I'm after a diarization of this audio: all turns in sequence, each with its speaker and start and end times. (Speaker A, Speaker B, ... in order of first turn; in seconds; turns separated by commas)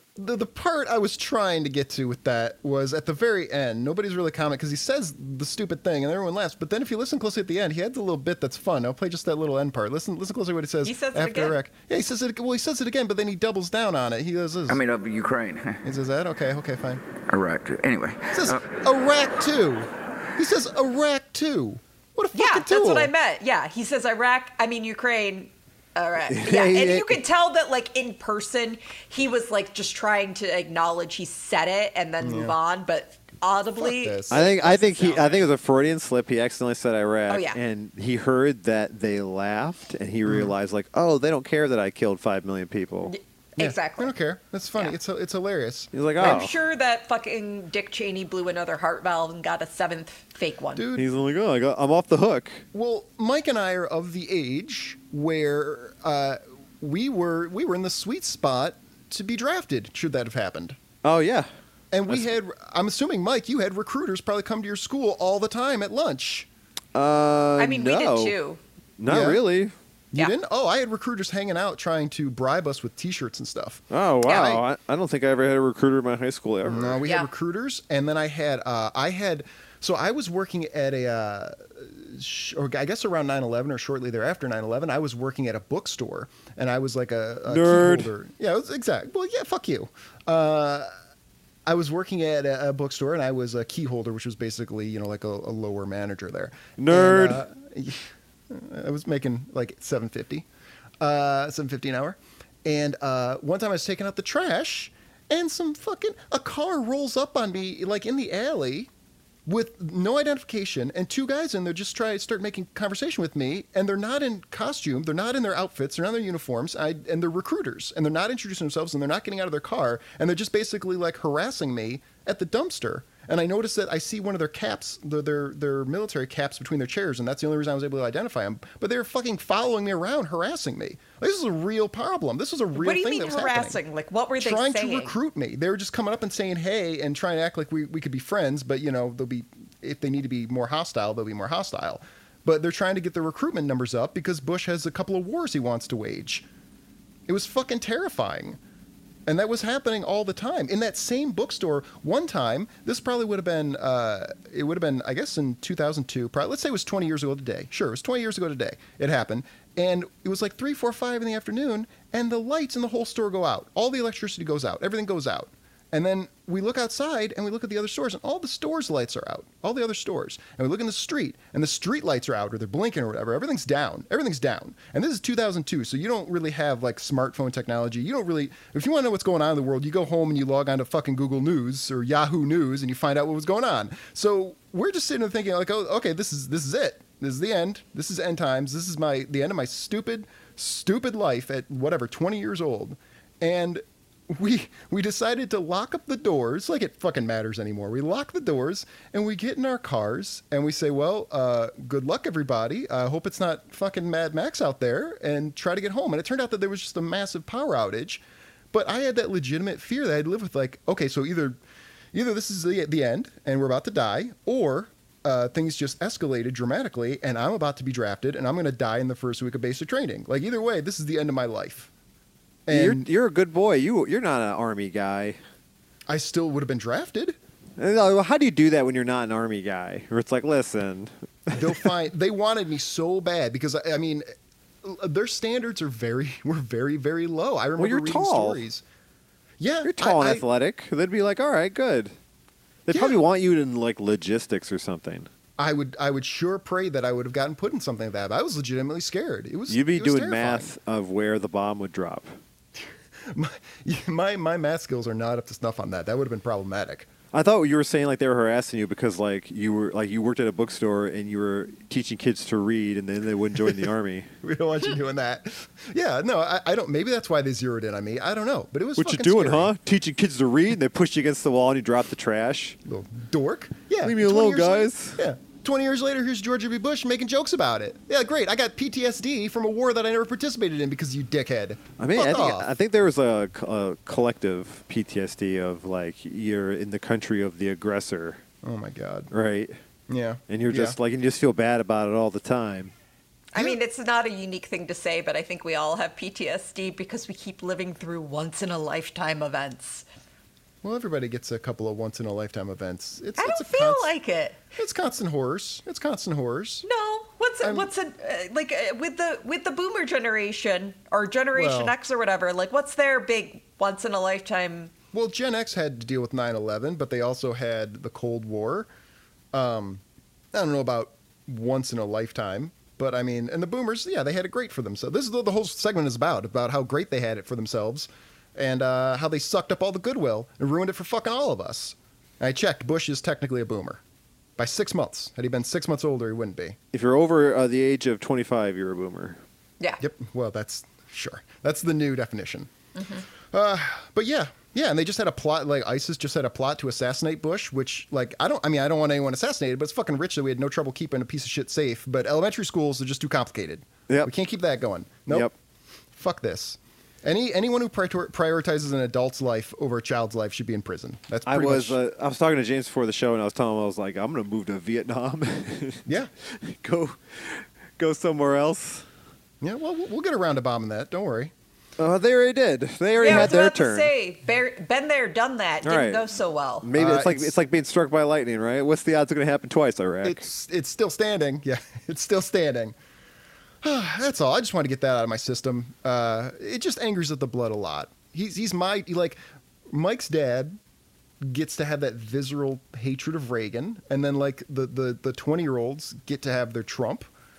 Speaker A: 0.2-14.8, Speaker B: 10.8-11.6, Speaker C: 14.7-15.8, Speaker A: 15.8-17.0, Speaker C: 17.3-18.7, Speaker A: 18.3-23.1, Speaker B: 22.3-35.4, Speaker D: 26.3-27.2, Speaker A: 32.2-32.6, Speaker A: 33.8-35.1, Speaker D: 34.3-43.1, Speaker B: 37.3-37.6, Speaker A: 40.2-40.5, Speaker B: 43.1-44.1, Speaker A: 43.6-45.9, Speaker D: 45.9-46.5, Speaker B: 46.2-50.9, Speaker A: 50.8-51.1, Speaker D: 51.0-52.6, Speaker A: 52.7-60.8, Speaker D: 61.0-61.5, Speaker A: 61.9-66.5, Speaker D: 67.0-68.3, Speaker B: 67.6-68.6, Speaker D: 69.0-69.7, Speaker A: 69.1-69.4, Speaker A: 70.1-73.8, Speaker D: 73.9-77.0, Speaker B: 74.2-74.6, Speaker A: 76.6-90.9, Speaker D: 87.5-88.1, Speaker A: 91.7-100.5, Speaker D: 96.8-97.4, Speaker A: 101.0-108.9, Speaker A: 109.5-133.8, Speaker B: 132.8-135.2, Speaker A: 134.4-146.5, Speaker A: 147.3-148.6, Speaker A: 149.3-211.6, Speaker A: 212.1-221.9, Speaker A: 222.7-223.1, Speaker D: 222.7-225.4, Speaker A: 226.1-227.4, Speaker D: 227.8-231.8, Speaker A: 231.5-234.3, Speaker A: 234.8-238.8, Speaker D: 237.8-238.6, Speaker A: 239.6-240.4, Speaker D: 239.8-242.1, Speaker D: 242.9-245.3, Speaker A: 242.9-243.2, Speaker A: 245.6-250.7, Speaker D: 249.7-252.3, Speaker A: 253.2-257.1, Speaker D: 257.3-264.3, Speaker A: 264.4-269.7, Speaker D: 269.0-272.8, Speaker A: 272.9-282.7, Speaker D: 274.0-275.2, Speaker D: 282.0-288.4, Speaker A: 288.6-289.3, Speaker D: 289.3-289.7, Speaker A: 290.1-291.0, Speaker D: 290.5-292.9, Speaker B: 293.5-300.1, Speaker A: 300.8-304.1, Speaker B: 303.4-304.6, Speaker A: 304.8-306.9, Speaker B: 306.9-314.9, Speaker A: 307.6-307.9, Speaker A: 311.5-311.9, Speaker A: 315.1-318.9, Speaker A: 319.5-334.0, Speaker A: 334.6-336.8, Speaker D: 336.9-339.4, Speaker A: 340.0-342.7, Speaker B: 343.0-343.2, Speaker A: 343.5-355.5, Speaker A: 356.1-362.0, Speaker D: 361.5-369.1, Speaker A: 366.1-366.3, Speaker A: 369.6-371.5, Speaker D: 372.0-374.1, Speaker B: 373.2-376.9, Speaker A: 373.2-373.5, Speaker D: 375.8-376.3, Speaker D: 376.8-380.4, Speaker A: 377.0-377.6, Speaker A: 380.2-383.0, Speaker A: 383.8-390.8, Speaker A: 391.4-397.3